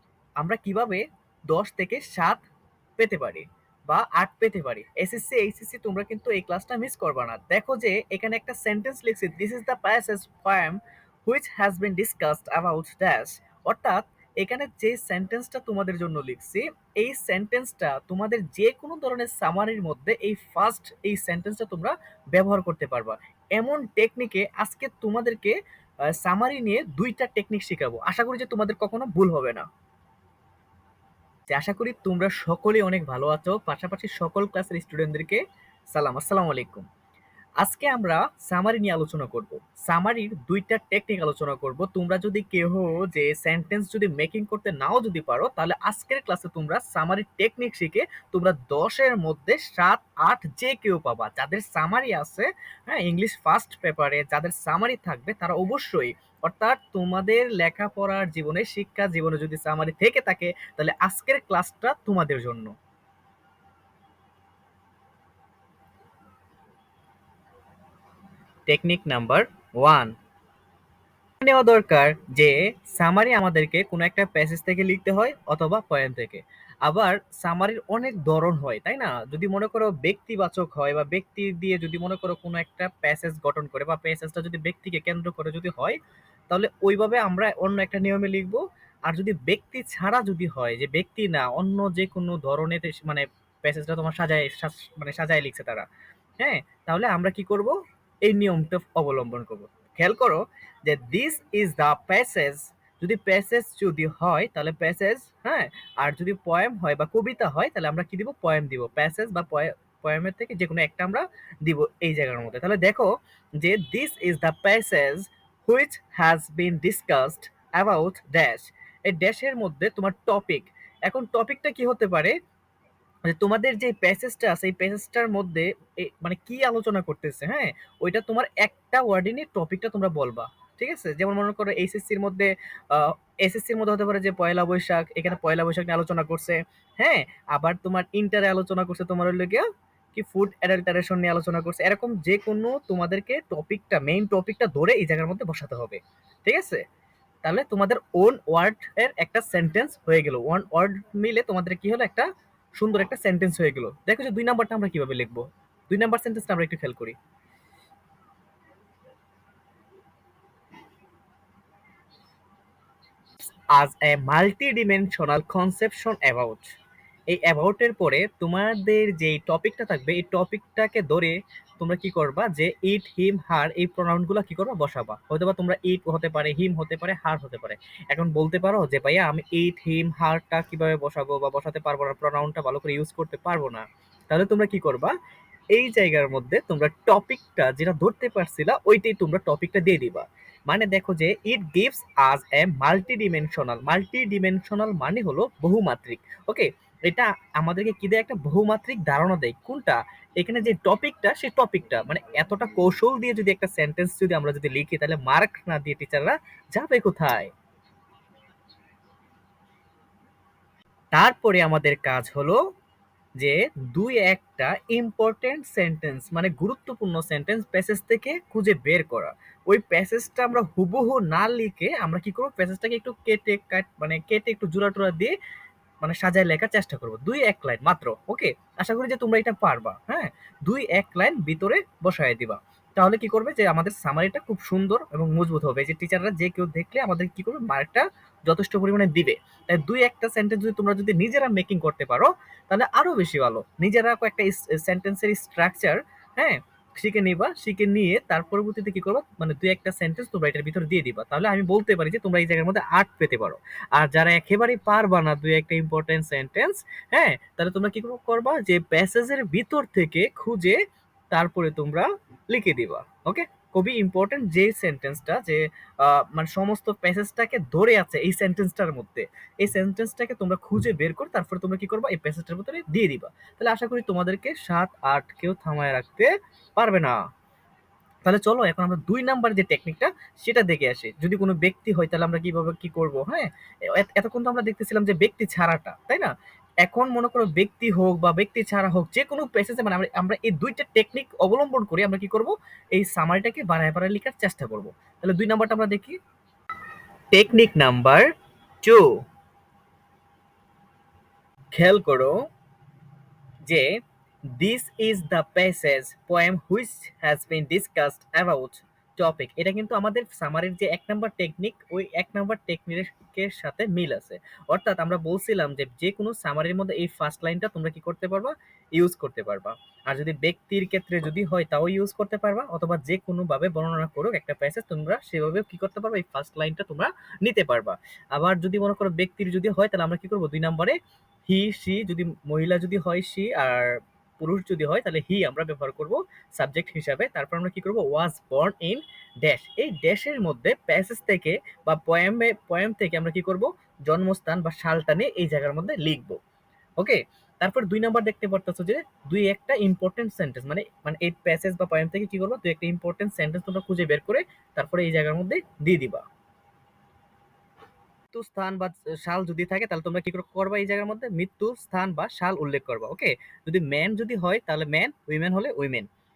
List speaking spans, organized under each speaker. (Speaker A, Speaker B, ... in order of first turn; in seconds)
Speaker A: 0.4-2.5, 3.0-25.6, 26.1-29.7, 31.5-36.9, 37.6-62.7, 68.7-70.1, 71.4-86.0, 86.5-95.9, 96.4-122.3, 123.3-146.8, 147.4-152.3, 152.8-157.2, 163.7-166.7, 167.3-185.1, 185.7-207.5, 211.1-212.6, 213.4-225.3, 226.0-260.8, 261.3-277.2, 278.2-286.3, 286.8-296.2, 297.3-298.3, 298.8-299.2, 301.7-302.4, 304.6-346.4, 347.0-356.2, 358.3-366.1